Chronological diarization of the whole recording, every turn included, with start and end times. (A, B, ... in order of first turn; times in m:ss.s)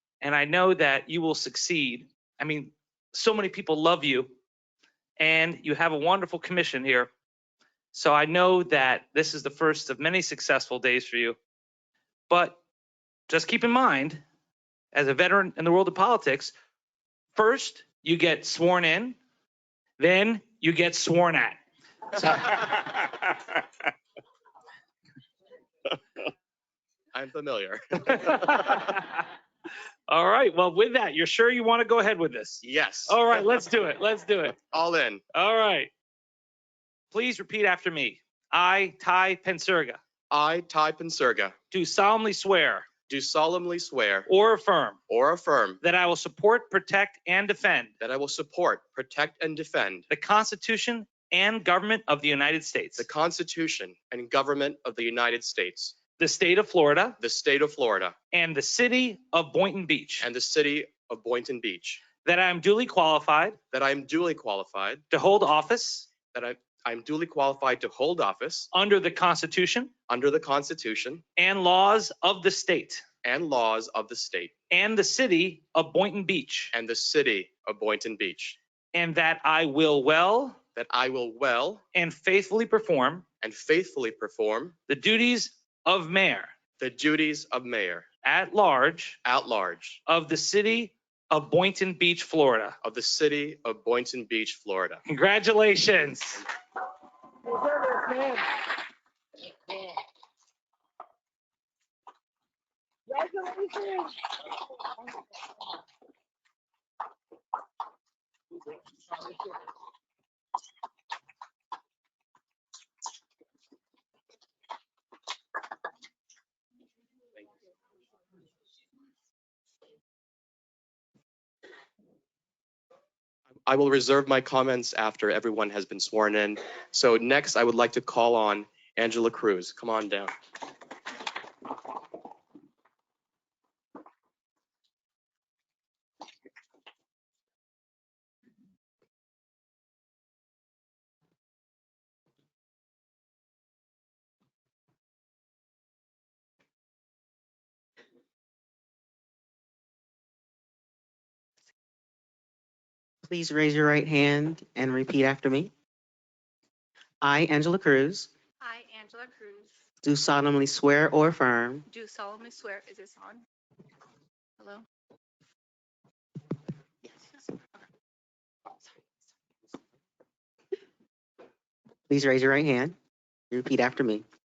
0:00.2-0:04.3 A
0:05.2-0:07.1 A
0:07.9-0:11.4 A
0:12.3-0:12.6 A
0:13.3-0:14.2 A
0:14.9-0:16.5 A
0:17.3-0:19.2 A
0:20.0-0:21.6 A
0:22.2-0:23.0 A
0:27.1-0:28.6 B
0:28.1-0:29.2 A
0:30.1-0:34.6 A
0:32.6-0:33.2 B
0:34.7-0:35.2 B
0:35.3-0:35.9 A
0:37.1-0:40.0 A
0:40.3-0:41.6 B
0:41.7-0:42.9 A
0:43.1-0:44.3 B
0:44.3-0:45.0 A
0:45.1-0:45.8 B
0:45.8-0:47.9 A
0:48.0-0:50.1 B
0:50.1-0:53.1 A
0:53.0-0:56.0 B
0:56.2-0:57.2 A
0:57.2-0:58.1 B
0:58.3-1:00.3 A
1:00.2-1:02.0 B
1:02.2-1:03.6 A
1:03.7-1:05.0 B
1:05.1-1:06.1 A
1:06.3-1:08.7 B
1:08.7-1:09.9 A
1:10.1-1:11.2 B
1:11.4-1:13.0 A
1:13.2-1:14.5 B
1:14.7-1:16.7 A
1:16.7-1:18.6 B
1:18.9-1:20.6 A
1:20.8-1:21.8 B
1:21.9-1:23.2 A
1:23.4-1:24.7 B
1:24.9-1:26.5 A
1:26.8-1:28.0 B
1:28.2-1:29.2 A
1:29.2-1:30.0 B
1:30.0-1:32.8 A
1:32.8-1:35.0 B
1:35.0-1:36.4 A
1:37.7-1:38.4 A
2:03.6-2:10.3 B
2:33.2-2:35.7 C
2:37.2-2:38.3 C
2:38.6-2:39.8 D
2:40.0-2:41.8 C
2:41.9-2:43.4 D
2:44.6-2:44.8 D
2:52.1-2:53.0 C
2:53.5-2:54.2 C